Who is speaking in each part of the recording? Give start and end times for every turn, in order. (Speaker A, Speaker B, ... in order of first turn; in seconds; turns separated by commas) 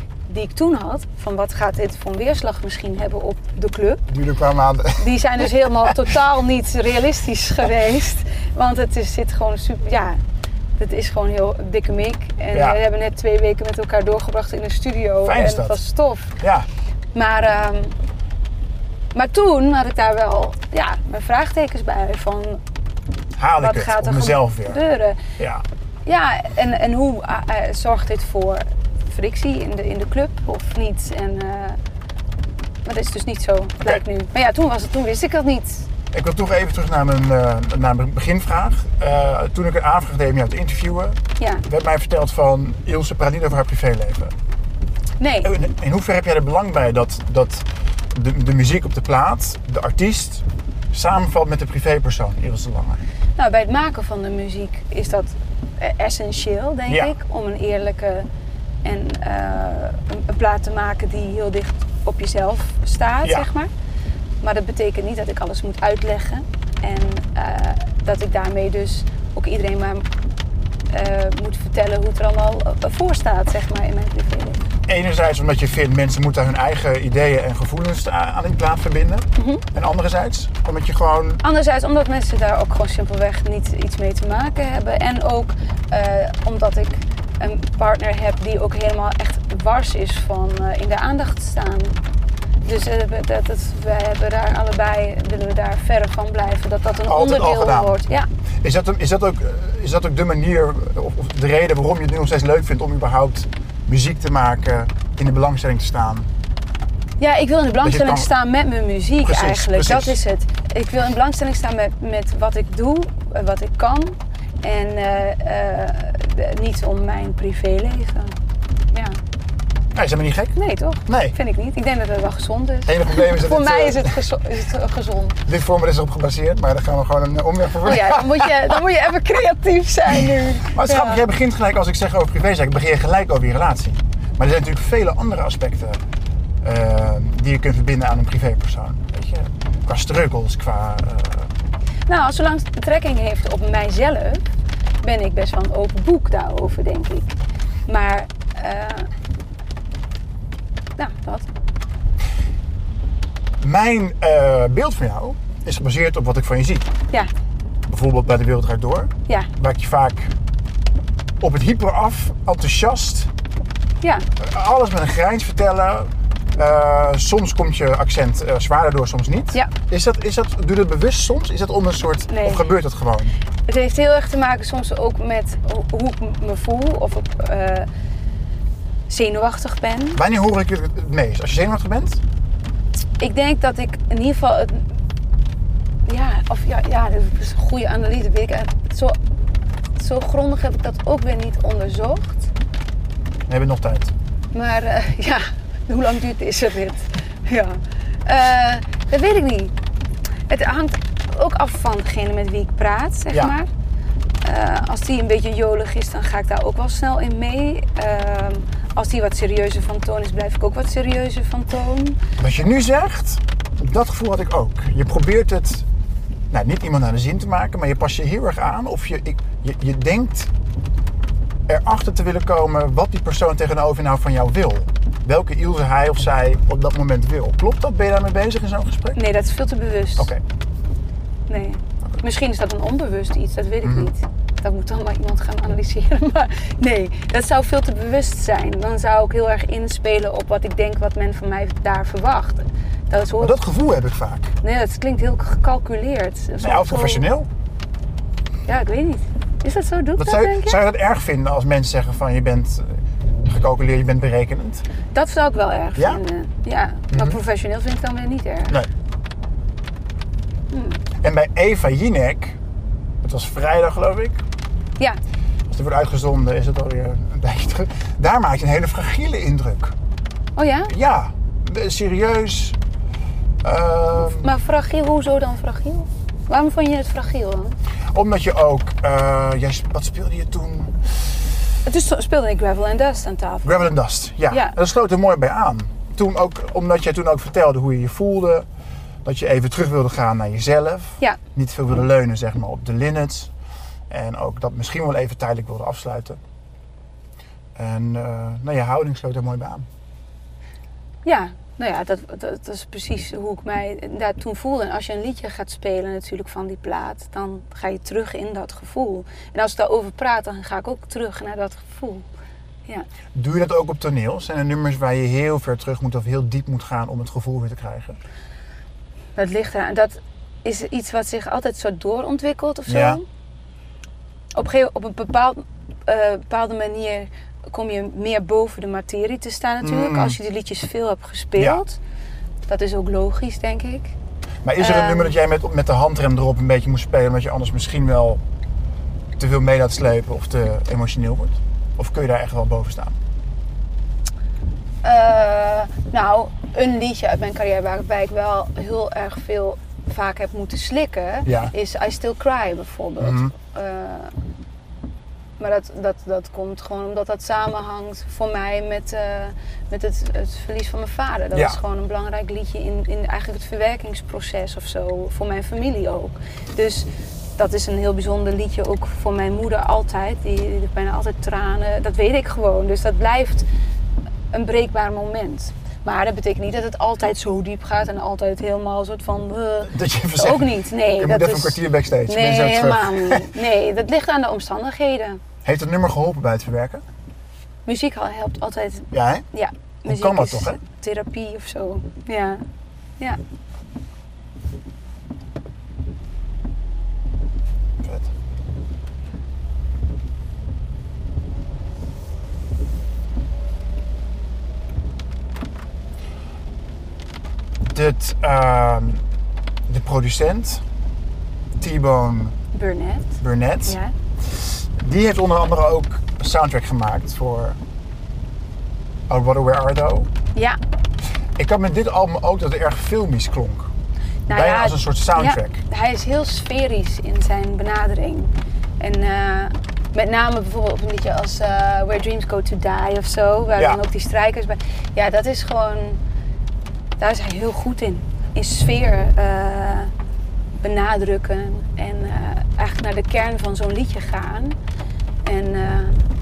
Speaker A: 0.3-4.1, Speaker B: 4.1-5.1, Speaker A: 5.0-10.2, Speaker A: 10.8-16.4, Speaker B: 12.5-12.8, Speaker B: 15.2-15.8, Speaker B: 16.4-16.7, Speaker A: 17.1-17.9, Speaker A: 19.1-22.6, Speaker B: 23.4-24.8, Speaker A: 23.6-25.2, Speaker B: 25.4-25.6, Speaker A: 26.1-31.8, Speaker A: 32.9-35.9, Speaker B: 36.1-44.3, Speaker A: 41.4-41.6, Speaker A: 45.2-45.5, Speaker B: 45.4-53.0, Speaker A: 53.4-58.3, Speaker B: 56.9-57.1, Speaker A: 58.8-63.7, Speaker A: 64.4-70.1, Speaker A: 70.9-74.7, Speaker B: 74.9-81.4, Speaker A: 79.4-79.6, Speaker A: 81.4-92.0, Speaker A: 92.7-98.3, Speaker B: 97.1-98.0, Speaker B: 98.6-106.3, Speaker A: 107.2-118.4, Speaker B: 107.8-108.3, Speaker B: 109.2-110.2, Speaker A: 118.9-119.2, Speaker B: 120.0-121.3, Speaker A: 120.6-125.4, Speaker B: 122.9-124.2, Speaker B: 125.5-128.8, Speaker A: 127.8-131.2, Speaker B: 130.1-136.0, Speaker B: 136.6-141.5, Speaker A: 142.1-144.5, Speaker A: 145.0-147.3, Speaker A: 147.9-149.1, Speaker A: 151.0-151.5, Speaker B: 153.6-156.9, Speaker B: 157.9-160.3, Speaker B: 161.4-163.3, Speaker B: 164.4-173.4, Speaker A: 172.3-172.7, Speaker A: 173.7-177.9, Speaker A: 179.1-180.2, Speaker B: 180.2-182.2, Speaker A: 183.2-184.8, Speaker A: 186.1-189.2, Speaker A: 190.0-192.5, Speaker B: 193.5-194.1, Speaker A: 194.5-199.7, Speaker A: 200.5-203.7, Speaker A: 204.4-212.2, Speaker B: 212.4-215.8, Speaker B: 216.5-220.5, Speaker B: 221.7-229.2, Speaker A: 229.1-230.3, Speaker A: 231.5-243.6, Speaker B: 233.8-234.1, Speaker B: 243.4-244.5, Speaker A: 244.6-247.3, Speaker B: 246.6-247.5, Speaker A: 248.7-250.8, Speaker B: 250.2-254.8, Speaker A: 255.1-258.8, Speaker B: 257.1-257.4, Speaker A: 260.7-261.0, Speaker B: 261.2-262.6, Speaker B: 263.2-264.4, Speaker B: 265.7-269.9, Speaker A: 270.6-270.9, Speaker B: 270.9-272.8, Speaker B: 273.6-274.5, Speaker A: 274.3-277.8, Speaker B: 278.1-281.0, Speaker A: 281.9-283.9, Speaker B: 283.6-288.7, Speaker A: 284.5-284.8, Speaker B: 289.2-293.5, Speaker B: 294.1-296.4, Speaker B: 297.8-299.9, Speaker A: 301.2-312.3, Speaker B: 313.3-318.2, Speaker A: 319.4-323.2, Speaker B: 322.9-323.2, Speaker A: 324.6-332.0, Speaker B: 329.8-330.4, Speaker A: 332.7-334.2, Speaker B: 334.6-338.4, Speaker A: 334.8-335.3, Speaker B: 339.4-343.2, Speaker A: 345.0-354.3, Speaker B: 351.5-351.7, Speaker B: 353.2-353.5, Speaker A: 355.6-373.7, Speaker B: 361.5-361.8, Speaker A: 374.5-385.4, Speaker B: 379.8-383.6, Speaker B: 385.6-387.0, Speaker A: 387.9-392.6, Speaker B: 389.1-389.5, Speaker B: 390.1-390.8, Speaker B: 398.0-398.3, Speaker B: 407.9-409.2, Speaker B: 409.9-410.8, Speaker B: 411.8-412.6, Speaker A: 412.7-414.1, Speaker B: 413.4-417.8, Speaker B: 419.3-420.3, Speaker B: 421.6-423.9, Speaker A: 424.5-436.2, Speaker B: 424.5-425.8, Speaker A: 437.2-440.1, Speaker A: 440.8-444.8, Speaker A: 445.4-446.2